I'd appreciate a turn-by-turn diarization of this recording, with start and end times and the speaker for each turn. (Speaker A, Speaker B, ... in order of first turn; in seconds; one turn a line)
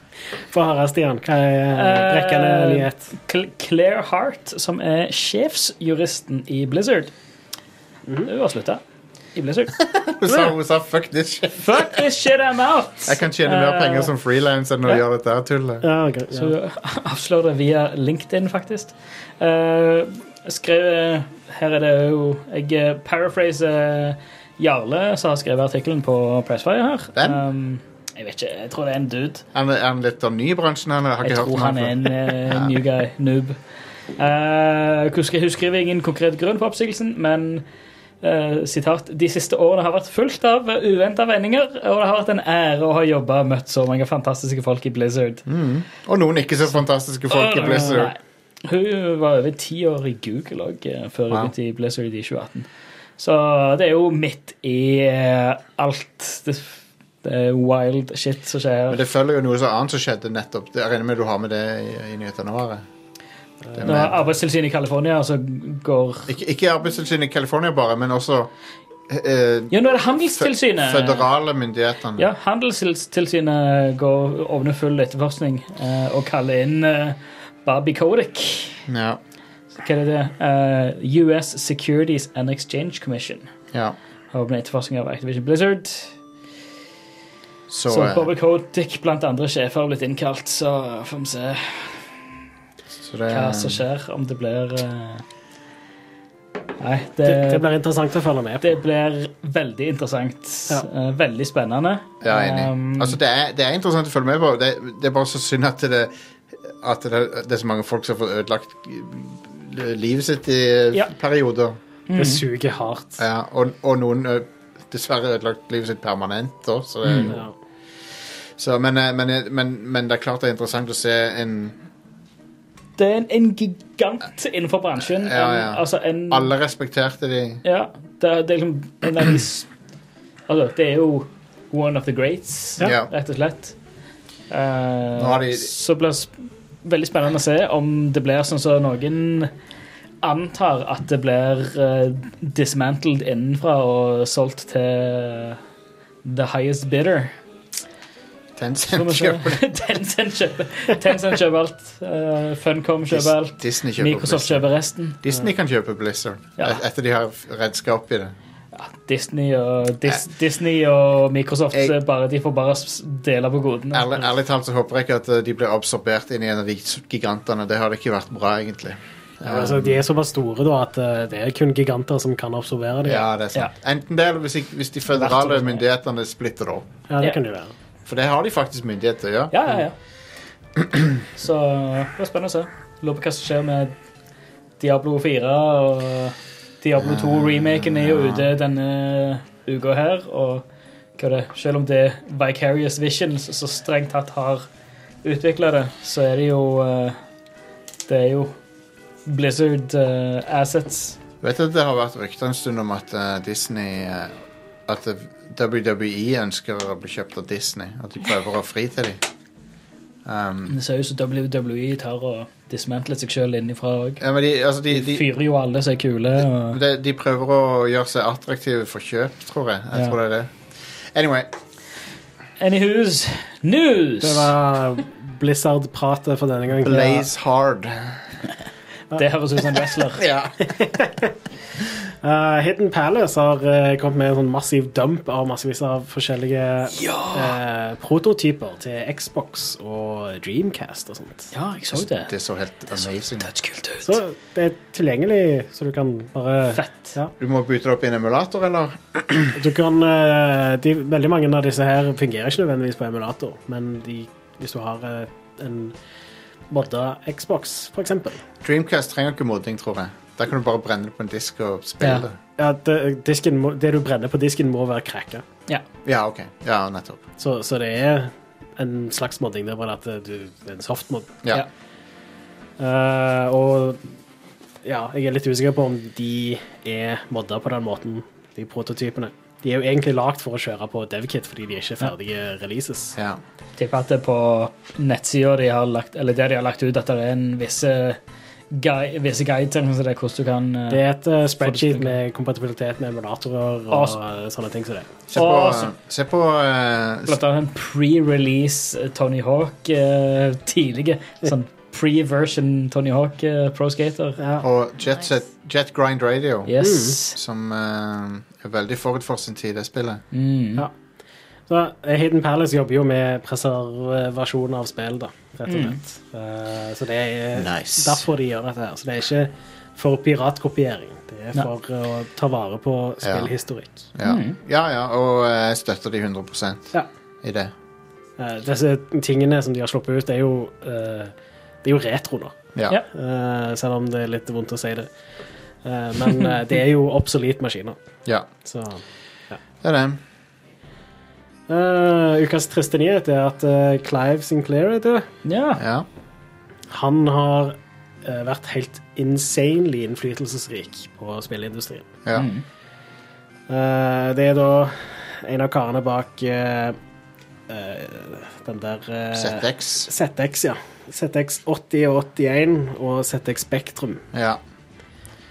Speaker A: 0.5-3.0
Speaker B: 1.7-7.1
Speaker B: 8.2-8.8
Speaker B: 9.3-9.8
Speaker C: 9.8-12.0
Speaker B: 11.6-14.1
Speaker C: 13.1-15.8
Speaker A: 15.8-16.5
Speaker B: 16.3-29.4
Speaker C: 27.1-27.4
Speaker C: 29.5-32.8
Speaker B: 31.2-33.6
Speaker B: 34.2-37.6
Speaker B: 38.2-45.4
Speaker C: 45.5-48.1
Speaker B: 47.3-59.0
Speaker C: 58.9-62.8
Speaker C: 63.7-64.2
Speaker B: 63.8-66.3
Speaker C: 66.3-68.5
Speaker C: 69.1-72.3
Speaker B: 69.7-71.3
Speaker B: 72.2-78.8
Speaker C: 78.9-79.2
Speaker B: 79.8-83.5
Speaker B: 84.3-86.1
Speaker C: 87.7-88.3
Speaker B: 87.9-92.1
Speaker C: 93.0-93.8
Speaker B: 93.3-95.2
Speaker B: 96.8-97.7
Speaker A: 97.2-98.7
Speaker B: 98.6-103.2
Speaker C: 102.2-111.8
Speaker B: 112.1-112.4
Speaker A: 112.1-113.2
Speaker C: 113.2-117.4
Speaker B: 117.0-117.3
Speaker A: 117.3-117.5
Speaker C: 118.6-121.8
Speaker B: 123.0-126.5
Speaker C: 125.0-127.6
Speaker B: 127.6-129.7
Speaker B: 130.5-133.7
Speaker C: 132.8-133.1
Speaker B: 134.5-139.5
Speaker C: 135.1-135.7
Speaker B: 140.2-145.6
Speaker B: 146.2-147.3
Speaker C: 148.6-149.6
Speaker B: 148.8-155.2
Speaker C: 153.1-154.7
Speaker C: 155.2-158.3
Speaker B: 158.7-164.1
Speaker C: 163.9-170.0
Speaker A: 169.4-173.2
Speaker C: 173.0-176.9
Speaker B: 175.1-175.8
Speaker A: 177.1-177.7
Speaker C: 178.1-179.6
Speaker B: 179.5-179.9
Speaker B: 181.3-183.9
Speaker B: 184.8-190.6
Speaker C: 187.0-188.5
Speaker B: 191.2-194.7
Speaker B: 195.2-197.2
Speaker B: 198.1-198.5
Speaker B: 199.2-201.2
Speaker C: 201.4-209.2
Speaker C: 210.2-210.8
Speaker B: 210.7-214.2
Speaker C: 214.2-215.3
Speaker B: 214.9-216.8
Speaker C: 216.7-221.5
Speaker B: 222.6-224.5
Speaker A: 224.2-227.2
Speaker C: 226.8-228.2
Speaker B: 229.1-230.3
Speaker C: 230.1-230.7
Speaker A: 230.6-231.3
Speaker A: 232.2-241.5
Speaker B: 236.9-237.6
Speaker B: 241.5-242.3
Speaker C: 241.9-243.5
Speaker B: 243.0-244.2
Speaker A: 244.0-247.3
Speaker B: 246.7-247.1
Speaker C: 247.4-249.5
Speaker A: 249.5-255.9
Speaker A: 256.7-258.4
Speaker C: 258.6-262.4
Speaker A: 262.6-265.4
Speaker C: 266.0-267.2
Speaker A: 267.4-271.4
Speaker A: 272.8-274.0
Speaker A: 274.8-283.2
Speaker C: 283.1-283.4
Speaker B: 283.8-288.2
Speaker B: 288.7-291.0
Speaker A: 290.9-295.2
Speaker B: 291.6-292.1
Speaker B: 293.9-294.2
Speaker C: 295.3-297.4
Speaker B: 295.3-295.9
Speaker B: 297.3-304.4
Speaker A: 304.4-304.7
Speaker C: 304.6-306.7
Speaker B: 306.7-307.4
Speaker A: 306.8-307.2
Speaker C: 307.3-310.2
Speaker B: 310.3-310.9
Speaker A: 311.7-324.1
Speaker B: 315.7-316.0
Speaker C: 317.5-318.2
Speaker C: 323.2-323.5
Speaker C: 324.1-327.7
Speaker B: 324.2-324.6
Speaker A: 328.4-332.6
Speaker A: 333.1-335.1
Speaker A: 335.8-338.0
Speaker A: 338.6-339.6
Speaker C: 339.8-340.2
Speaker A: 341.7-345.3
Speaker B: 345.4-345.8
Speaker C: 345.8-346.1
Speaker A: 346.9-352.1
Speaker B: 352.3-352.6
Speaker A: 353.7-357.0
Speaker A: 357.7-364.2
Speaker C: 359.3-360.1
Speaker C: 364.3-364.6